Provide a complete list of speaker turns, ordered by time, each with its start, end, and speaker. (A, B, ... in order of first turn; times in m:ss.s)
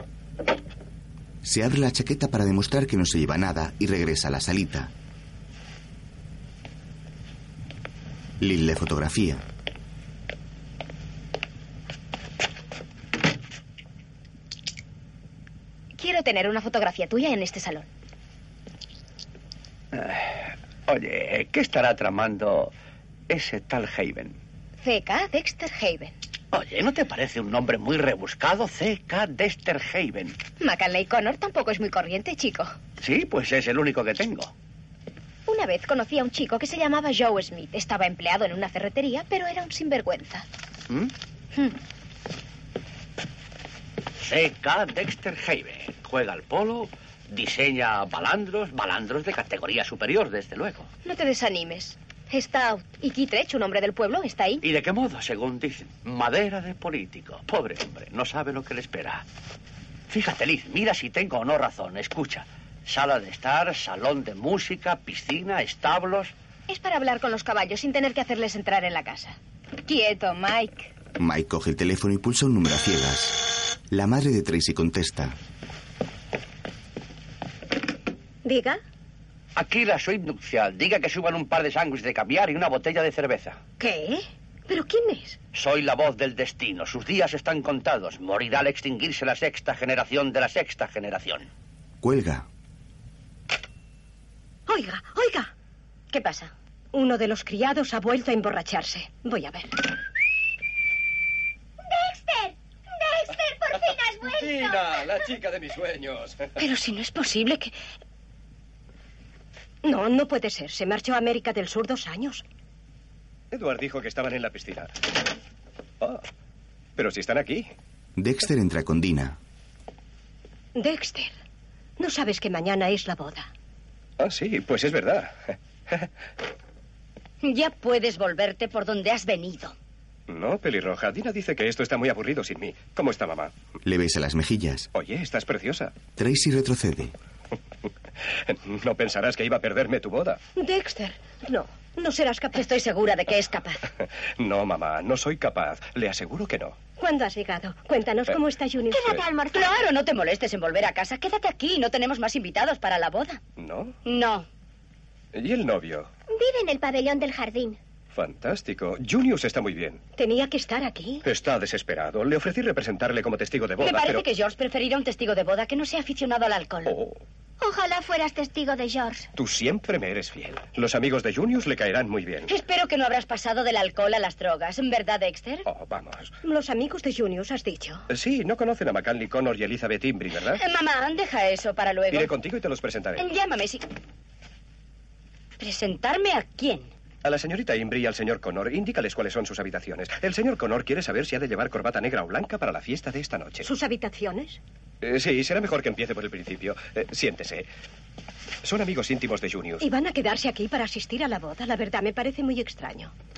0:01.4-0:04.9 A
0:08.4-0:09.4 A
0:16.0-0:17.9 B
0:19.9-0:22.7 C
0:23.3-0:24.4 C
0:24.8-0:26.1 B
0:26.5-0:30.4 C
0:30.6-0:32.7 B
0:33.0-0:34.5 C
0:35.5-0:40.4 B
0:44.2-0:50.9 C
0:51.0-0:54.6 B
0:54.6-0:59.2 C
1:00.1-1:06.3 C
1:06.7-1:10.9 B
1:11.2-1:15.4 A
1:18.4-1:18.8 D
1:19.6-1:23.6 C
1:23.8-1:25.4 D
1:25.5-1:31.5 C
1:32.0-1:32.5 A
1:34.7-1:35.5 D
1:36.1-1:36.5 E
1:36.9-1:39.9 D
1:41.8-1:45.0 F
1:44.2-1:46.5 G
1:46.6-1:47.7 E
1:49.8-1:52.4 D
1:53.5-1:54.9 G
1:57.0-1:57.7 G
1:58.2-1:59.4 A
2:00.8-2:01.3 D
2:02.0-2:03.5 D
2:04.2-2:06.1 G
2:07.4-2:09.7 E
2:10.3-2:13.5 G
2:13.8-2:14.9 A
2:14.9-2:16.0 G
2:16.2-2:17.1 A
2:18.4-2:20.4 G
2:20.6-2:22.6 D
2:22.5-2:23.8 E
2:24.4-2:26.8 G
2:27.0-2:29.2 D
2:28.9-2:29.8 F
2:29.5-2:33.4 E
2:33.6-2:34.0 G
2:34.0-2:34.5 E
2:35.3-2:36.1 G
2:36.3-2:37.8 F
2:38.1-2:40.0 G
2:40.2-2:41.2 D
2:41.2-2:44.2 G
2:43.8-2:47.0 E
2:46.8-2:47.2 G
2:47.6-2:49.3 F
2:49.4-2:52.5 G
2:52.5-2:55.7 E
2:55.6-2:56.3 G
2:56.4-2:58.0 D
2:58.1-3:00.6 G
3:00.5-3:02.3 E
3:02.1-3:03.2 G
3:03.2-3:03.8 E
3:05.6-3:06.9 E
3:07.2-3:13.7 G
3:13.6-3:14.6 D
3:15.0-3:17.7 G
3:18.6-3:19.8 G
3:19.8-3:23.1 D